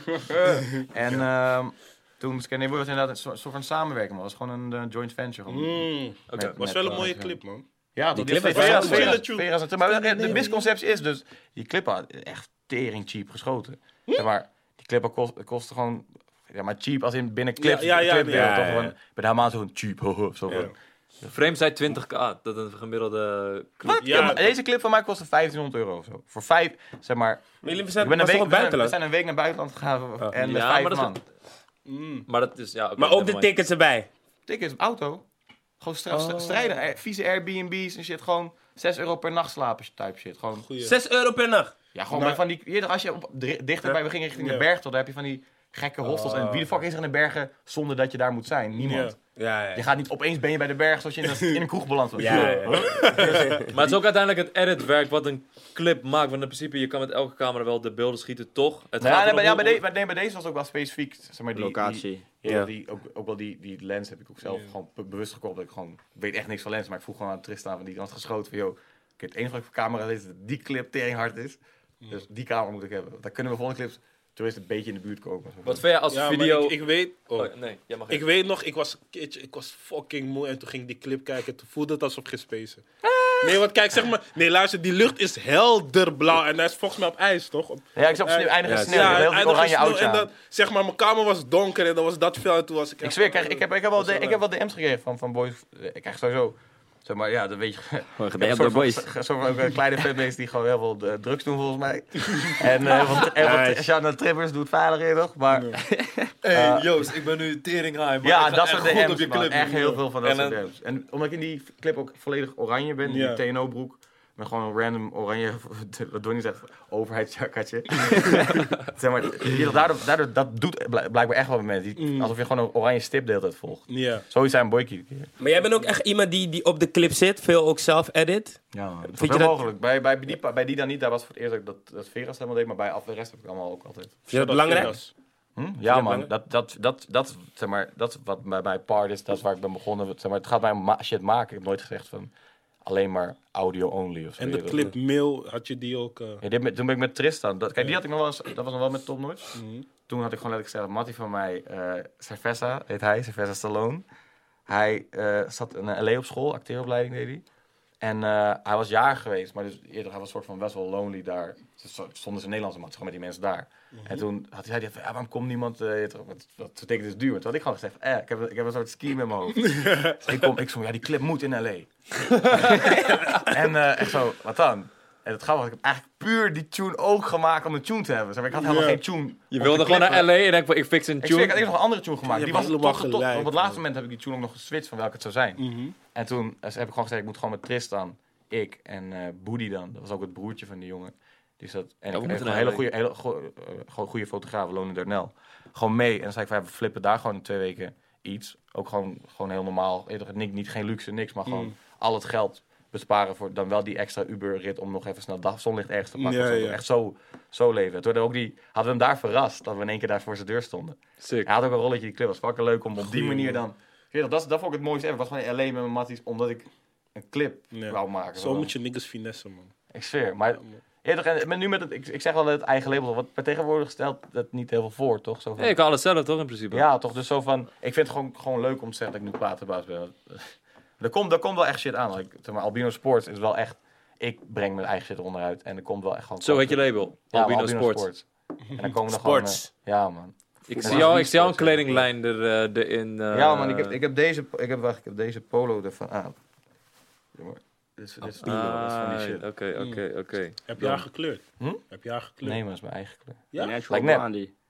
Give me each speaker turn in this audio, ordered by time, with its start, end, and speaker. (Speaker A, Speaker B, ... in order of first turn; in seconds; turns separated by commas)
Speaker A: 0.7-7.4, Speaker B: 5.5-7.6, Speaker C: 6.3-6.6, Speaker A: 7.9-20.7, Speaker D: 8.1-9.2, Speaker B: 8.3-10.7, Speaker B: 17.6-18.8, Speaker D: 18.3-18.9, Speaker C: 21.3-24.4, Speaker A: 23.8-27.4, Speaker B: 24.0-24.4, Speaker D: 27.6-28.9, Speaker A: 28.0-31.2, Speaker C: 30.4-31.1, Speaker B: 31.9-32.3, Speaker C: 32.3-33.5, Speaker D: 33.0-34.1, Speaker A: 34.5-35.2, Speaker A: 35.8-40.7, Speaker D: 36.1-36.6, Speaker B: 40.6-41.0, Speaker D: 40.8-41.7, Speaker A: 41.9-49.1, Speaker B: 42.1-42.4, Speaker B: 44.4-44.6, Speaker B: 46.0-46.7, Speaker B: 48.8-49.1, Speaker D: 49.4-49.8, Speaker A: 49.7-53.6, Speaker D: 52.2-53.7, Speaker B: 52.2-53.6, Speaker C: 53.7-59.8, Speaker A: 59.0-75.8, Speaker E: 61.5-62.2, Speaker D: 62.4-62.7, Speaker C: 75.6-78.2, Speaker B: 76.1-77.5, Speaker B: 78.1-82.8, Speaker A: 83.0-83.6, Speaker B: 83.4-94.4, Speaker A: 88.0-90.3, Speaker D: 88.6-89.3, Speaker A: 93.0-105.8, Speaker E: 98.2-99.0, Speaker B: 103.4-103.8, Speaker D: 103.4-103.7, Speaker B: 105.5-105.8, Speaker E: 105.8-106.3, Speaker C: 106.4-110.6, Speaker A: 106.5-106.9, Speaker A: 108.2-125.3, Speaker B: 113.0-113.4, Speaker B: 122.0-122.3, Speaker B: 123.9-124.2, Speaker D: 125.4-129.6, Speaker A: 128.7-134.9, Speaker D: 134.3-135.0, Speaker B: 134.3-135.1, Speaker A: 135.6-142.3, Speaker D: 135.8-136.3, Speaker A: 142.8-144.9, Speaker B: 144.4-146.4, Speaker A: 146.4-154.0, Speaker B: 149.5-149.8, Speaker A: 154.7-157.4, Speaker A: 158.0-180.3, Speaker B: 163.9-164.2, Speaker B: 169.6-170.2, Speaker B: 173.0-173.4, Speaker B: 178.5-179.0, Speaker C: 179.5-181.6, Speaker A: 181.2-218.7, Speaker B: 182.2-183.8, Speaker B: 185.6-185.9, Speaker C: 192.1-192.8, Speaker B: 201.4-201.7, Speaker B: 206.2-206.8, Speaker C: 211.2-211.5, Speaker B: 213.0-213.6, Speaker B: 217.7-219.7, Speaker A: 219.9-225.8, Speaker C: 225.6-226.9, Speaker A: 226.7-242.1, Speaker C: 236.4-238.1, Speaker D: 239.1-239.7, Speaker C: 240.7-244.0, Speaker B: 240.8-241.1, Speaker A: 243.3-246.4, Speaker A: 247.3-249.4, Speaker C: 248.4-250.6, Speaker B: 249.8-250.0, Speaker B: 250.7-252.6, Speaker A: 250.8-251.0, Speaker A: 251.6-251.8, Speaker A: 252.4-254.2, Speaker B: 253.5-253.8, Speaker E: 253.5-254.5